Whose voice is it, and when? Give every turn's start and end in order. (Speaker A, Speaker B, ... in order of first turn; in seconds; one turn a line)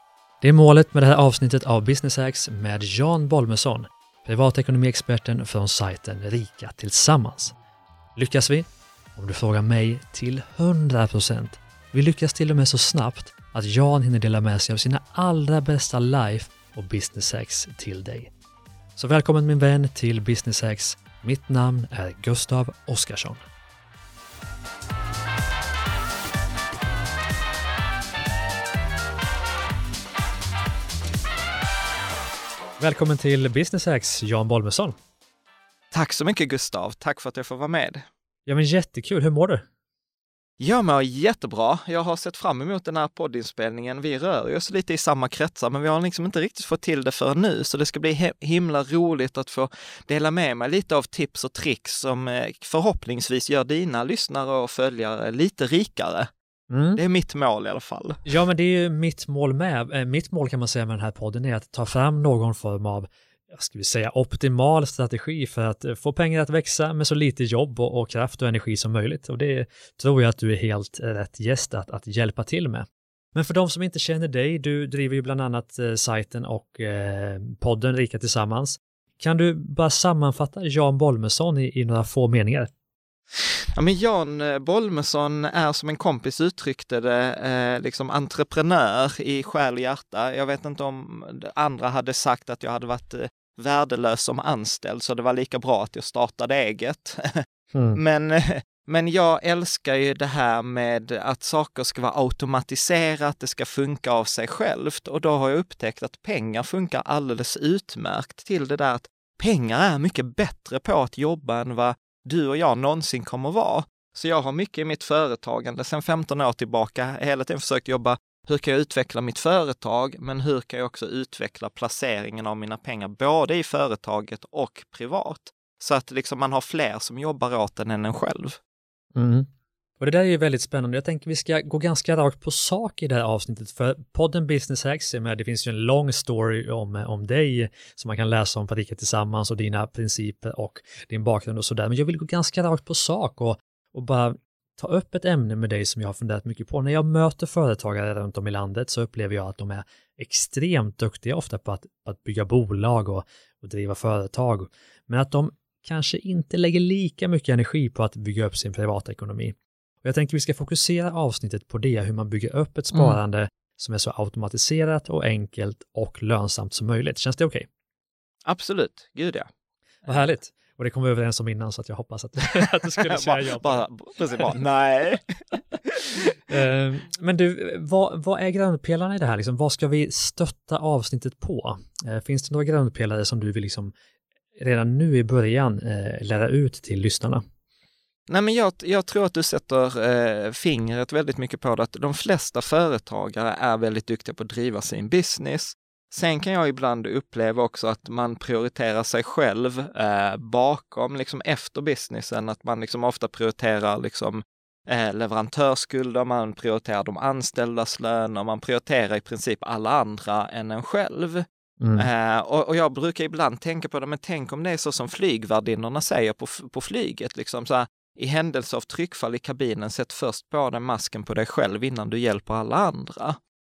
Speaker A: 0.4-7.5
Speaker A: 8.2-18.3
Speaker A: 18.9-23.4
Speaker A: 32.8-34.9
Speaker B: 35.9-38.1
Speaker A: 38.5-39.6
Speaker B: 40.6-56.3
Speaker A: 56.7-57.0
Speaker B: 57.0-58.3
Speaker A: 58.2-82.7
Speaker B: 83.8-97.4
Speaker A: 97.7-98.0
Speaker B: 97.9-128.6
Speaker A: 129.1-129.5
Speaker A: 130.0-167.7
Speaker B: 162.9-163.2
Speaker B: 168.4-169.5
Speaker A: 170.1-174.5
Speaker B: 173.0-176.3
Speaker A: 176.5-183.9
Speaker A: 184.6-187.4
Speaker B: 188.3-211.4
Speaker A: 211.8-212.1
Speaker B: 212.0-223.4